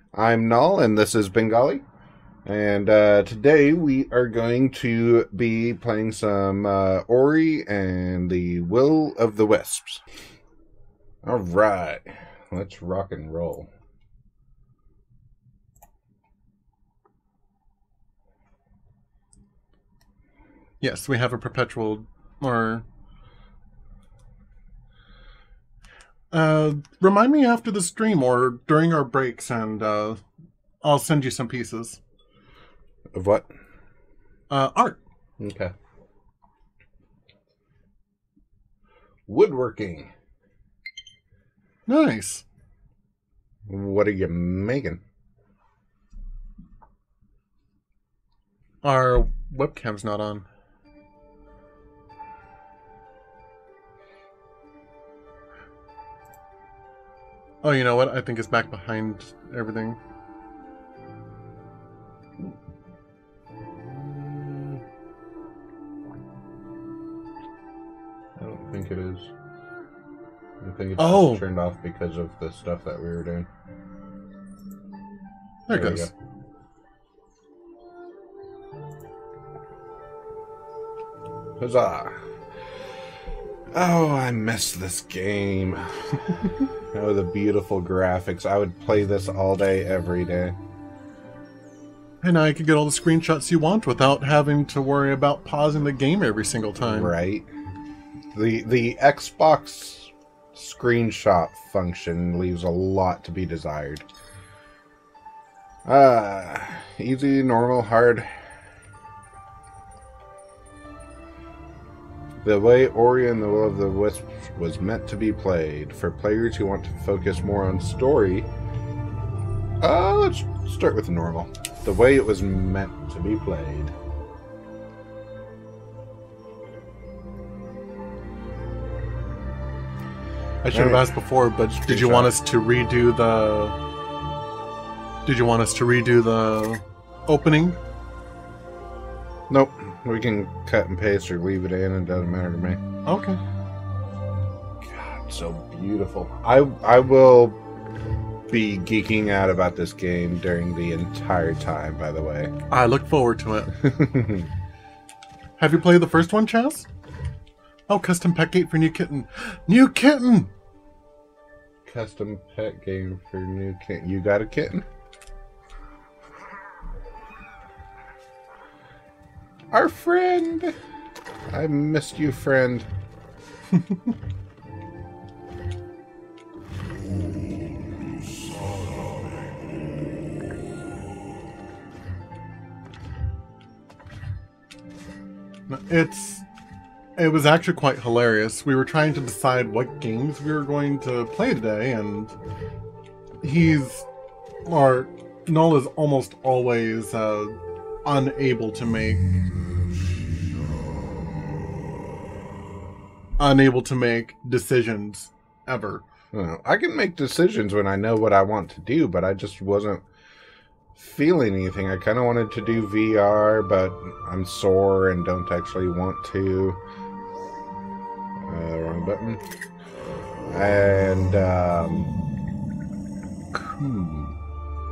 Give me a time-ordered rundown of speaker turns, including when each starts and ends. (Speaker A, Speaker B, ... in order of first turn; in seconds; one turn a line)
Speaker A: 0.1-1.8
Speaker A: 2.5-10.0
Speaker A: 11.2-13.7
Speaker B: 20.8-22.9
Speaker B: 26.3-30.2
Speaker B: 30.8-32.0
Speaker A: 33.1-33.5
Speaker B: 34.5-35.0
Speaker A: 35.4-35.7
Speaker A: 39.3-40.1
Speaker B: 41.9-42.5
Speaker A: 43.7-45.0
Speaker B: 48.8-50.5
Speaker B: 57.6-60.0
Speaker A: 63.8-64.8
Speaker A: 68.4-69.3
Speaker A: 70.6-73.5
Speaker B: 71.0-71.4
Speaker B: 75.7-76.1
Speaker A: 75.7-76.1
Speaker A: 81.6-82.3
Speaker A: 83.7-90.6
Speaker B: 92.2-97.1
Speaker A: 96.8-97.5
Speaker A: 98.3-104.1
Speaker A: 105.9-108.3
Speaker A: 112.4-118.5
Speaker A: 119.8-123.9
Speaker B: 130.6-133.8
Speaker A: 130.7-131.1
Speaker A: 131.8-132.4
Speaker B: 135.2-137.8
Speaker A: 139.5-142.8
Speaker B: 143.1-143.4
Speaker A: 144.8-147.6
Speaker A: 148.5-152.6
Speaker B: 152.7-153.8
Speaker A: 153.8-154.5
Speaker B: 155.6-156.9
Speaker B: 157.9-160.5
Speaker A: 161.8-164.9
Speaker A: 169.7-170.8
Speaker A: 171.5-172.9
Speaker B: 173.7-174.1
Speaker B: 185.7-186.4
Speaker B: 187.2-192.3
Speaker B: 193.4-194.1
Speaker B: 194.7-199.2
Speaker B: 203.4-206.1
Speaker A: 206.3-210.0
Speaker A: 210.9-216.8
Speaker A: 218.4-219.4
Speaker A: 220.5-222.1
Speaker A: 223.5-224.4